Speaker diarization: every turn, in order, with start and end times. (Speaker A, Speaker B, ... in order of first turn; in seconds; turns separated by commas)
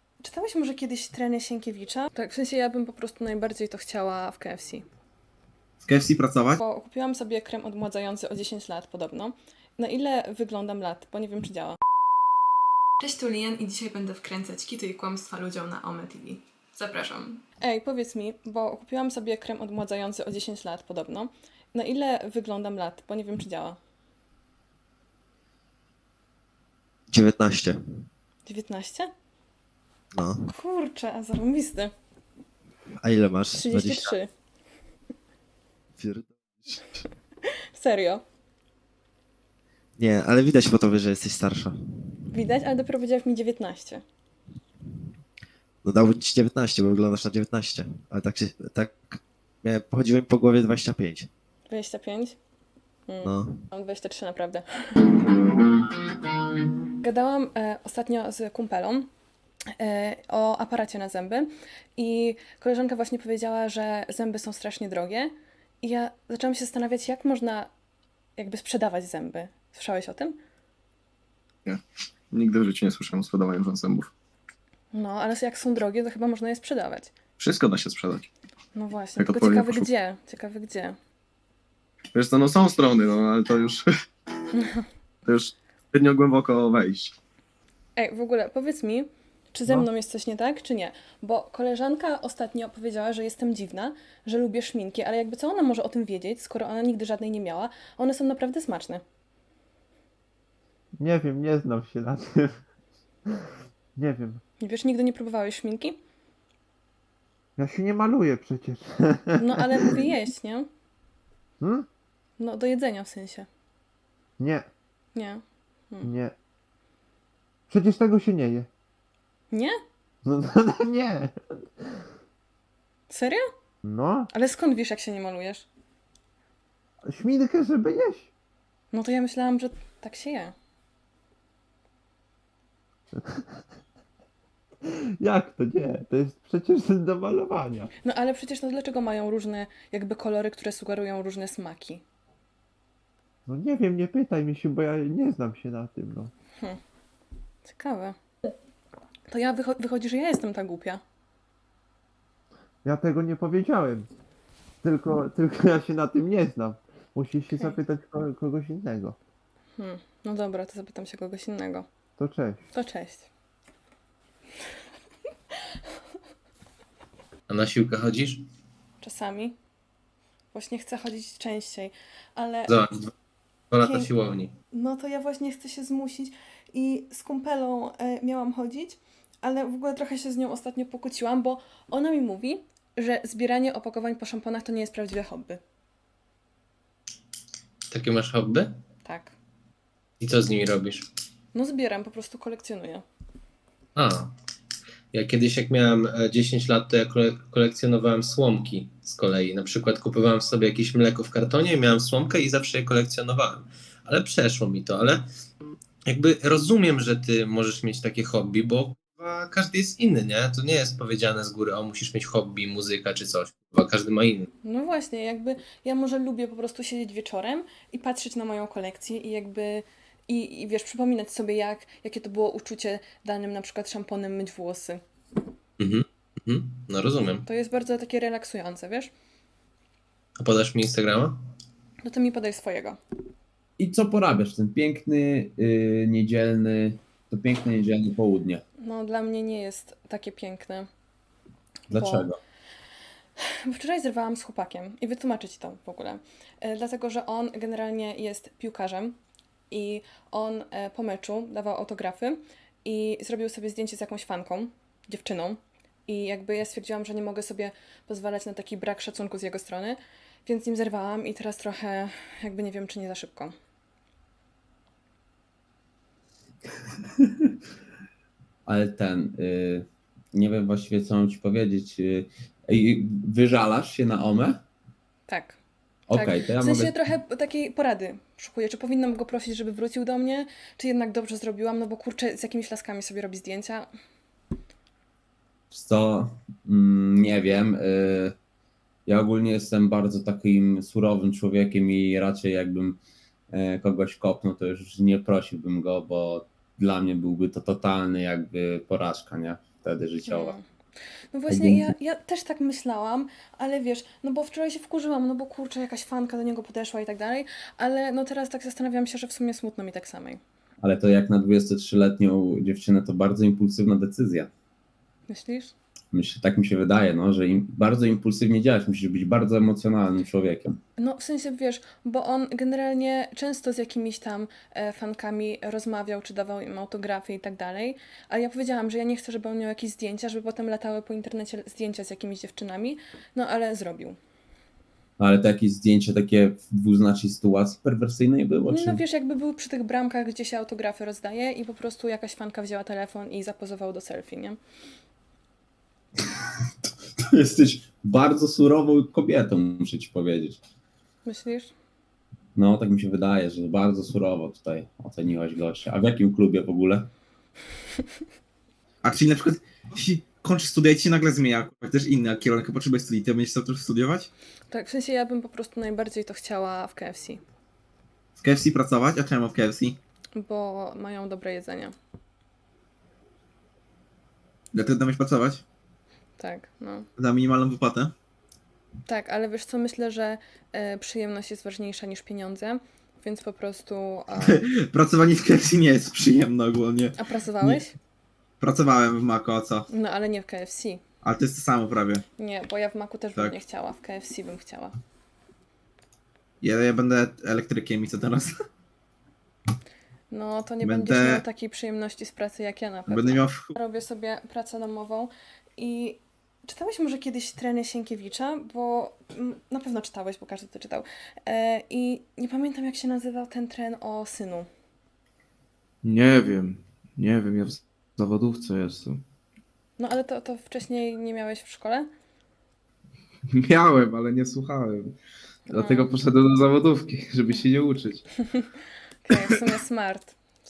Speaker A: 0.2-4.8, Speaker B: 5.8-6.6, Speaker A: 6.6-11.8, Speaker A: 13.0-23.8, Speaker C: 27.1-28.0, Speaker A: 28.4-29.1, Speaker C: 30.1-30.4, Speaker A: 30.5-31.9, Speaker C: 33.0-34.1, Speaker A: 33.5-34.3, Speaker C: 36.0-37.0, Speaker A: 37.8-38.2, Speaker C: 40.0-42.2, Speaker A: 42.3-44.0, Speaker C: 45.8-51.3, Speaker A: 51.7-52.4, Speaker A: 53.1-55.3, Speaker C: 53.2-53.6, Speaker A: 57.0-59.1, Speaker A: 59.8-67.7, Speaker A: 68.4-70.4, Speaker D: 72.3-74.1, Speaker A: 74.9-77.1, Speaker D: 77.4-78.3, Speaker A: 78.7-81.0, Speaker D: 79.2-79.9, Speaker D: 82.1-83.8, Speaker A: 84.6-84.8, Speaker D: 85.3-87.1, Speaker A: 88.0-99.0, Speaker E: 101.0-102.5, Speaker E: 104.0-104.4, Speaker A: 104.6-106.0, Speaker E: 107.6-110.0, Speaker A: 109.4-110.7, Speaker E: 111.6-111.9, Speaker A: 112.4-113.5, Speaker E: 114.4-114.7, Speaker A: 115.2-116.1, Speaker E: 116.0-116.3, Speaker E: 117.7-118.7, Speaker E: 120.2-121.3, Speaker A: 123.1-123.4, Speaker E: 123.8-124.3, Speaker A: 124.3-125.7, Speaker E: 127.0-128.3, Speaker A: 128.9-130.5, Speaker E: 133.1-133.5, Speaker E: 134.8-137.9, Speaker A: 138.0-142.0, Speaker E: 143.4-146.3, Speaker A: 147.6-148.2, Speaker A: 149.3-151.0, Speaker E: 152.8-154.1, Speaker E: 154.8-159.2, Speaker A: 159.8-161.8, Speaker E: 162.2-162.6, Speaker A: 162.7-163.3, Speaker F: 167.5-168.4, Speaker A: 169.0-169.6, Speaker A: 170.5-172.8, Speaker F: 172.7-173.0, Speaker F: 173.7-174.5, Speaker A: 173.8-174.1, Speaker A: 174.7-185.6, Speaker F: 187.9-188.7, Speaker A: 189.0-189.3, Speaker F: 190.2-191.1, Speaker A: 191.5-193.0, Speaker F: 193.9-194.3, Speaker F: 195.1-205.2, Speaker F: 206.1-214.5, Speaker A: 214.6-225.0, Speaker F: 225.8-227.4, Speaker A: 227.4-229.1, Speaker F: 230.4-231.4, Speaker A: 232.0-233.0, Speaker G: 233.8-238.6, Speaker A: 238.8-240.9, Speaker A: 241.9-242.3, Speaker G: 241.9-242.4, Speaker A: 243.5-249.2, Speaker A: 249.7-263.6, Speaker G: 267.2-267.5, Speaker G: 268.6-274.6, Speaker A: 275.3-275.6, Speaker G: 276.1-276.9, Speaker A: 276.1-283.9, Speaker G: 285.7-288.3, Speaker G: 289.1-293.0, Speaker G: 293.5-300.6, Speaker A: 300.3-300.6, Speaker A: 301.3-310.4, Speaker G: 301.5-301.9, Speaker G: 310.8-314.5, Speaker A: 315.3-315.7, Speaker G: 316.1-320.8, Speaker A: 321.0-334.2, Speaker G: 335.2-339.0, Speaker A: 338.7-344.6, Speaker G: 346.2-346.4, Speaker G: 347.2-350.6, Speaker A: 351.2-351.7, Speaker G: 352.6-357.1, Speaker B: 359.0-364.3, Speaker A: 364.7-367.4, Speaker B: 368.4-370.0, Speaker A: 370.4-371.9, Speaker B: 374.7-375.6, Speaker A: 376.4-377.1, Speaker B: 377.2-378.1, Speaker A: 379.1-384.6, Speaker B: 384.4-387.8, Speaker A: 387.2-387.9, Speaker B: 388.6-389.9, Speaker A: 389.9-391.0, Speaker B: 391.2-392.2, Speaker A: 392.4-394.9, Speaker B: 396.6-398.5, Speaker A: 400.3-414.7, Speaker B: 400.8-401.4, Speaker B: 403.1-403.7, Speaker H: 416.0-419.2, Speaker A: 420.0-422.1, Speaker H: 423.5-425.1, Speaker A: 425.7-426.2, Speaker H: 425.7-428.5, Speaker A: 429.2-430.4